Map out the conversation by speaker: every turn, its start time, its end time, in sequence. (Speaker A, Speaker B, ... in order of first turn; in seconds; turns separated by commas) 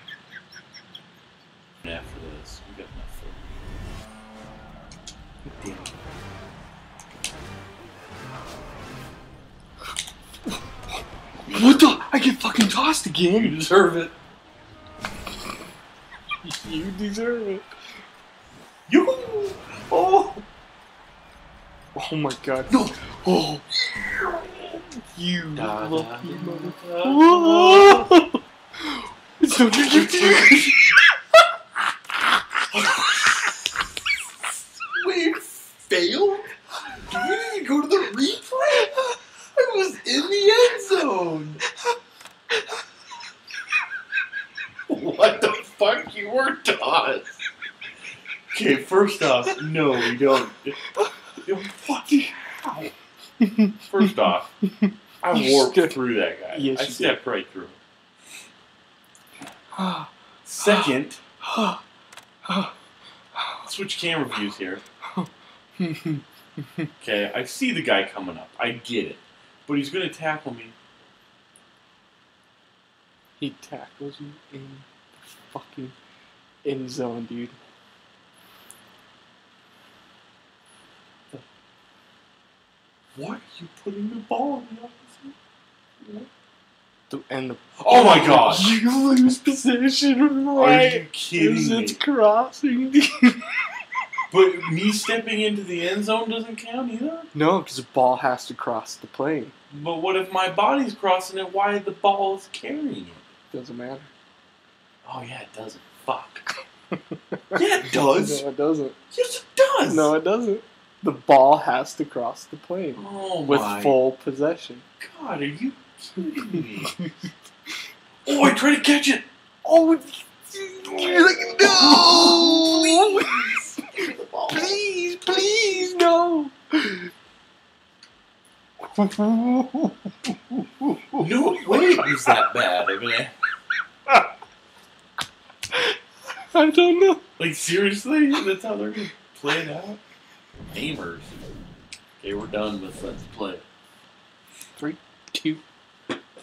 Speaker A: 1.8-3.5, Speaker A: 5.5-5.9, Speaker A: 11.5-12.0, Speaker B: 11.5-13.6, Speaker A: 13.3-14.1, Speaker B: 16.4-17.7, Speaker A: 18.9-20.4, Speaker B: 21.9-23.7, Speaker A: 22.7-23.0, Speaker A: 23.9-24.8, Speaker B: 25.1-30.9, Speaker A: 25.6-28.1, Speaker A: 29.7-30.8, Speaker A: 32.7-33.6, Speaker A: 34.9-36.5, Speaker A: 37.0-39.0, Speaker A: 39.5-41.6, Speaker A: 44.9-47.4, Speaker A: 48.5-50.8, Speaker A: 51.4-52.9, Speaker B: 53.4-56.0, Speaker A: 53.8-54.5, Speaker A: 55.2-57.8, Speaker B: 56.5-57.2, Speaker B: 59.8-60.9, Speaker A: 60.5-61.2, Speaker B: 61.4-61.8, Speaker B: 62.5-62.7, Speaker A: 63.6-64.8, Speaker B: 65.2-66.9, Speaker A: 67.0-70.8, Speaker B: 73.4-76.0, Speaker B: 76.7-77.6, Speaker A: 83.2-85.3, Speaker A: 86.0-86.3, Speaker B: 87.1-93.5, Speaker A: 87.8-88.7, Speaker A: 90.6-92.0, Speaker A: 94.3-97.3, Speaker B: 97.3-99.5, Speaker A: 99.7-103.2, Speaker B: 103.5-104.1, Speaker A: 105.0-106.5, Speaker B: 107.3-109.0, Speaker A: 107.5-108.5, Speaker A: 109.1-110.1, Speaker B: 109.8-114.8, Speaker A: 113.0-114.0, Speaker A: 115.0-117.0, Speaker B: 116.5-117.1, Speaker A: 118.2-119.2, Speaker B: 119.6-127.1, Speaker A: 120.9-125.5, Speaker B: 128.9-131.9, Speaker A: 131.2-133.3, Speaker B: 136.5-137.2, Speaker A: 137.4-140.0, Speaker A: 140.7-141.3, Speaker A: 142.2-143.6, Speaker B: 144.8-145.6